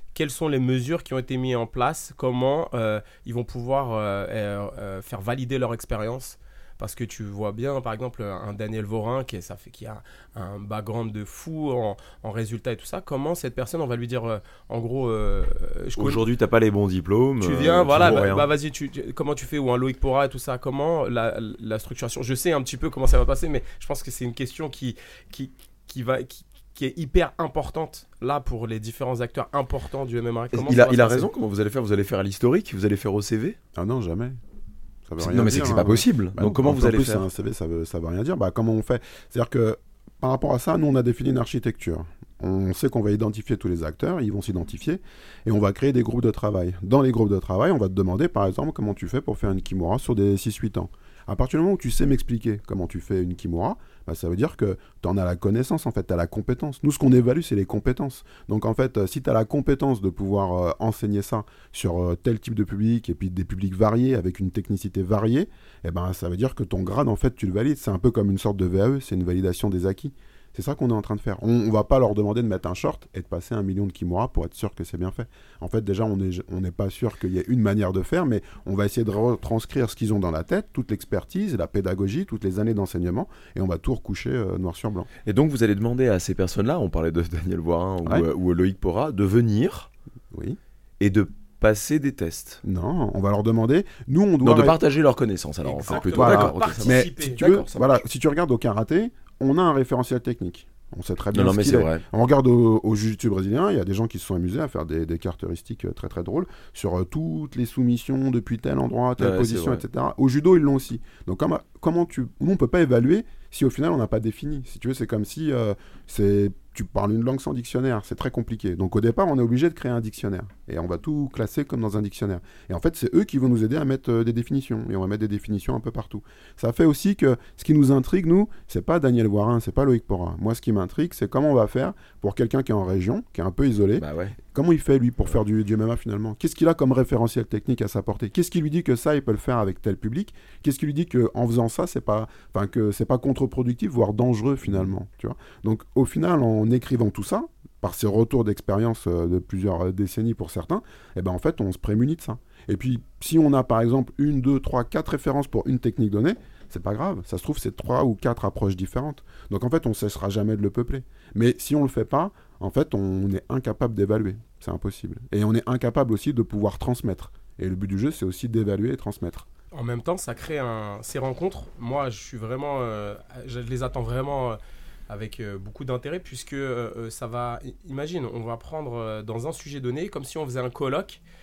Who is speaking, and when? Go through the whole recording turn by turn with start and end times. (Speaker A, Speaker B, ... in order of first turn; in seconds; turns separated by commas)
Speaker A: 0.1-16.2, Speaker B: 16.0-18.5, Speaker A: 17.4-31.3, Speaker B: 30.5-33.6, Speaker C: 33.8-34.4, Speaker C: 35.1-85.1, Speaker B: 35.2-37.3, Speaker B: 85.2-89.9, Speaker C: 90.3-90.6, Speaker B: 91.0-92.6, Speaker C: 92.6-94.8, Speaker B: 94.4-98.0, Speaker A: 95.6-97.4, Speaker C: 96.0-169.5, Speaker B: 101.3-102.0, Speaker B: 109.2-109.8, Speaker B: 134.0-134.4, Speaker A: 169.7-174.6, Speaker A: 175.1-181.2